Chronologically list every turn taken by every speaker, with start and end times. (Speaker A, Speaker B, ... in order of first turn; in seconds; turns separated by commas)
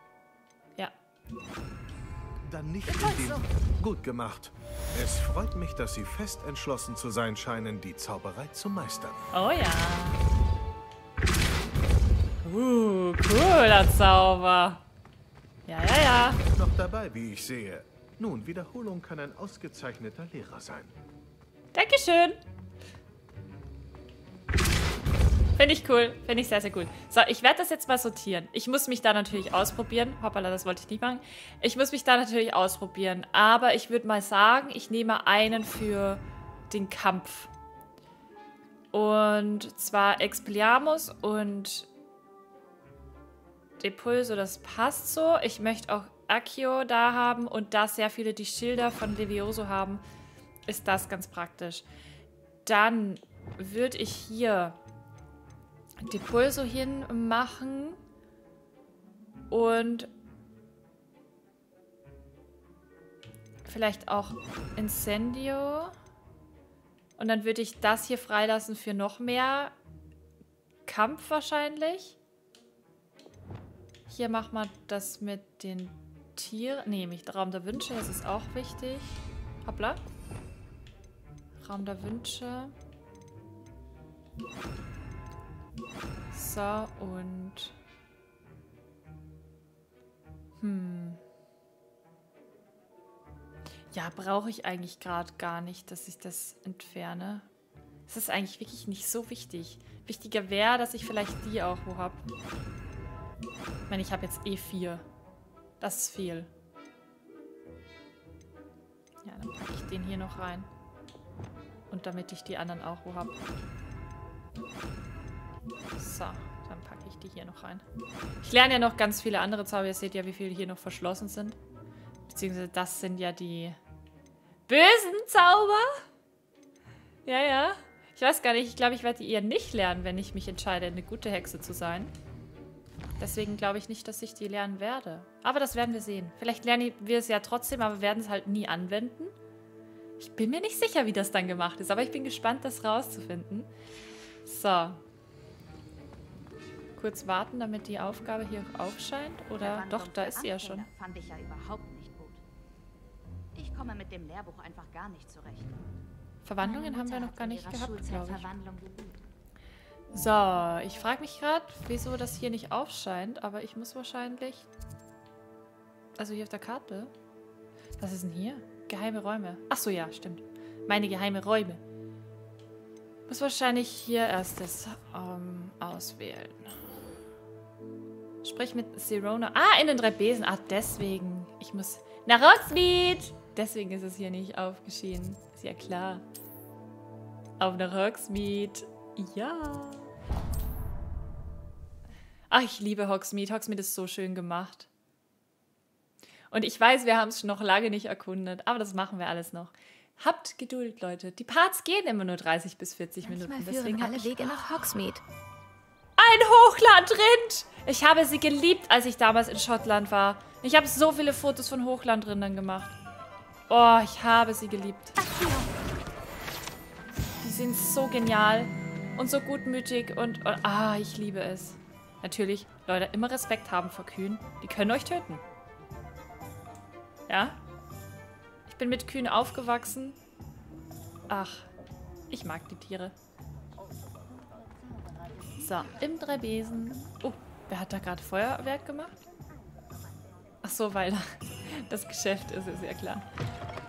Speaker A: 2.4-9.2, Speaker B: 2.9-3.4, Speaker B: 9.3-10.2, Speaker B: 12.4-14.8, Speaker B: 15.7-16.4, Speaker A: 16.5-20.9, Speaker B: 21.7-22.4, Speaker B: 25.6-37.5, Speaker B: 38.9-41.9, Speaker B: 43.8-50.0, Speaker B: 50.7-51.9, Speaker B: 52.6-54.8, Speaker B: 56.0-58.0, Speaker B: 59.5-60.1, Speaker B: 63.6-65.9, Speaker B: 67.2-69.7, Speaker B: 70.8-72.2, Speaker B: 74.1-80.0, Speaker B: 81.6-82.7, Speaker B: 86.3-87.7, Speaker B: 90.6-91.2, Speaker B: 93.9-97.5, Speaker B: 98.1-102.2, Speaker B: 103.9-105.0, Speaker B: 105.8-106.5, Speaker B: 109.2-110.7, Speaker B: 111.9-113.4, Speaker B: 116.0-117.8, Speaker B: 118.4-121.6, Speaker B: 122.3-123.8, Speaker B: 124.7-126.0, Speaker B: 127.2-132.1, Speaker B: 133.2-139.3, Speaker B: 140.2-143.7, Speaker B: 144.4-145.0, Speaker B: 147.0-150.9, Speaker C: 149.6-152.4, Speaker C: 153.5-155.7, Speaker B: 156.4-158.5, Speaker C: 156.6-159.2, Speaker B: 160.1-164.7, Speaker B: 166.2-167.1, Speaker B: 168.0-171.8, Speaker B: 173.3-176.8, Speaker B: 178.4-186.2, Speaker B: 187.6-190.1, Speaker B: 192.5-194.9, Speaker B: 196.5-204.4, Speaker D: 203.2-205.2, Speaker B: 206.2-212.9, Speaker B: 213.7-215.2, Speaker D: 215.2-215.7, Speaker B: 217.4-225.4, Speaker B: 227.3-227.6, Speaker B: 228.7-230.2, Speaker B: 231.3-231.7, Speaker B: 232.3-233.1, Speaker B: 235.6-239.1, Speaker B: 240.6-243.2